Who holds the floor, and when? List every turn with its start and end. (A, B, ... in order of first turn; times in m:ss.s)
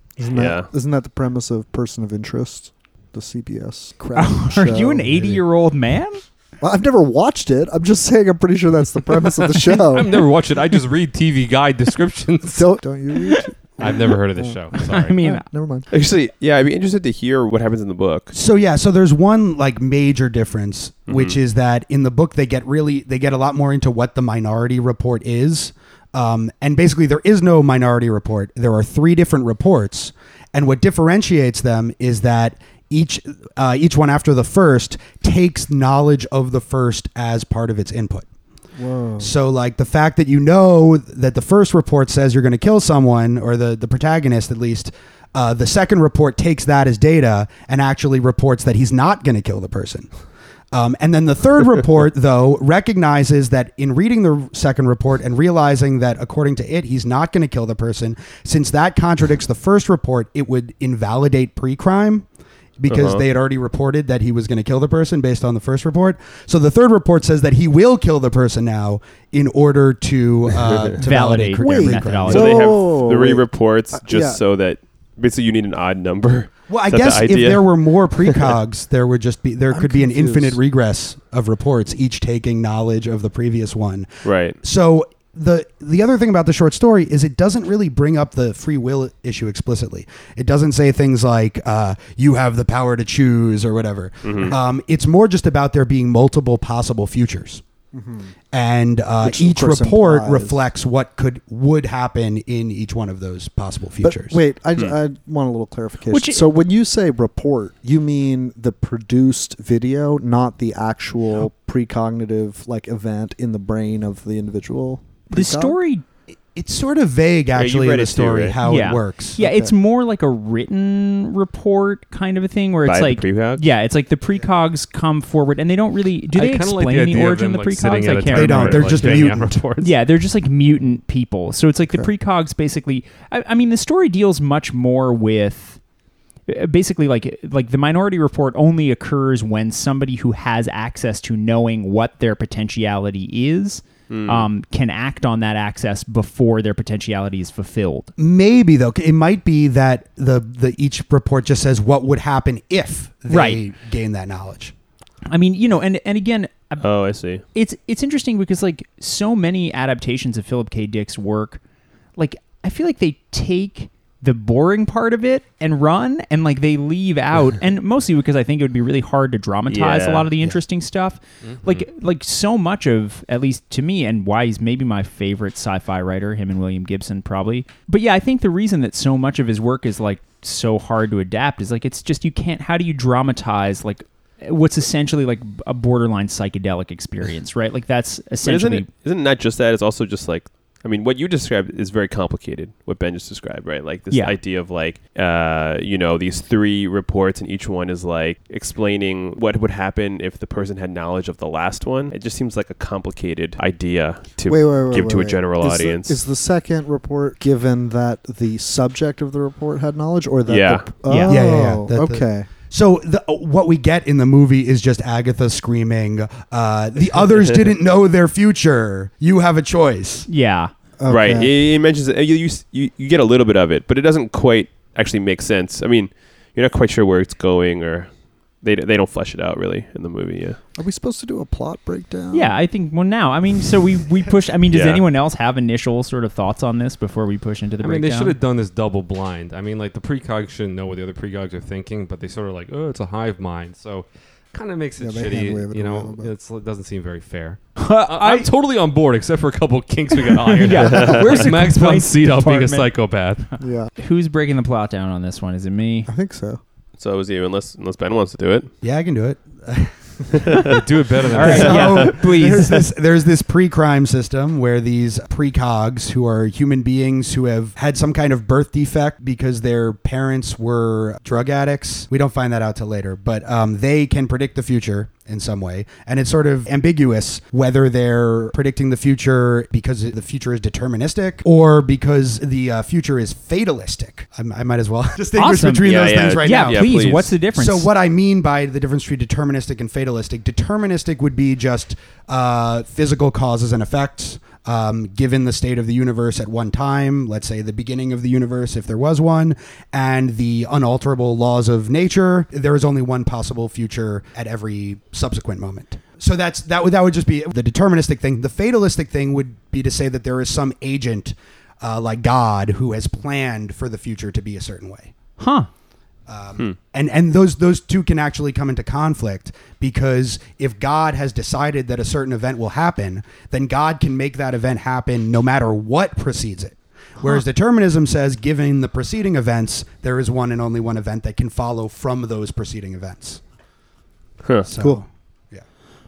0:00.2-0:05.4 A
0:00.3-0:00.7 B
0:04.2-0:06.2 C
0:06.6-0:10.2 A
0:09.6-0:12.7 D
0:12.5-0:15.9 A
0:13.8-0:15.2 D
0:14.8-0:15.4 C
0:15.9-0:18.3 B
0:18.3-0:38.3 E
0:21.1-0:21.4 B
0:38.8-0:39.3 A
0:39.2-0:50.1 E
0:50.7-1:02.3 E
1:02.8-1:12.7 E
1:02.9-1:03.2 B
1:10.6-1:11.0 B
1:11.0-1:12.6 C
1:11.6-1:14.4 A
1:12.3-1:18.6 B
1:16.7-1:37.6 E
1:19.7-1:20.6 A
1:24.2-1:24.6 B
1:34.2-1:34.6 B
1:37.9-1:38.3 A
1:38.5-1:44.4 E
1:39.2-1:40.7 A
1:44.0-1:55.8 A
1:46.1-1:46.4 C
1:55.3-1:56.0 C
1:56.6-1:59.4 E
1:57.5-1:58.6 B
1:58.6-2:15.8 C
1:59.4-1:59.7 A
2:02.8-2:03.7 B
2:06.3-2:09.9 D
2:08.3-2:09.6 E
2:16.5-2:28.1 C
2:24.1-2:24.5 B
2:28.2-2:34.7 E
2:33.3-2:33.6 C
2:35.3-2:41.6 C
2:36.8-2:37.4 B
2:42.2-3:08.9 C
2:49.7-2:50.3 B
2:51.4-2:51.9 D
3:08.4-3:26.2 B
3:14.1-3:14.4 C
3:24.5-3:32.5 A
3:30.5-3:31.0 B
3:31.0-3:31.4 C
3:31.2-3:40.3 E
3:37.3-3:37.6 B
3:40.3-3:40.7 C
3:41.0-3:41.5 A
3:41.1-3:50.6 B
3:50.8-3:52.6 A
3:52.3-3:58.4 C
3:54.7-3:55.0 B
3:57.8-4:13.5 D
4:05.0-4:06.3 A
4:07.8-4:08.5 C
4:10.3-4:12.9 C
4:11.0-4:11.2 B
4:13.6-4:13.9 A
4:14.0-4:16.1 C
4:16.1-4:16.6 A
4:17.0-4:18.7 B
4:18.8-4:20.7 E
4:20.4-4:20.8 B
4:20.7-4:22.0 D
4:21.3-4:22.9 C
4:21.4-5:15.1 E
4:21.5-4:22.1 B
4:45.4-4:47.9 C
4:45.8-4:47.4 B
5:15.4-5:15.7 C
5:16.3-5:33.4 E
5:34.6-5:35.6 E
5:34.8-5:35.0 A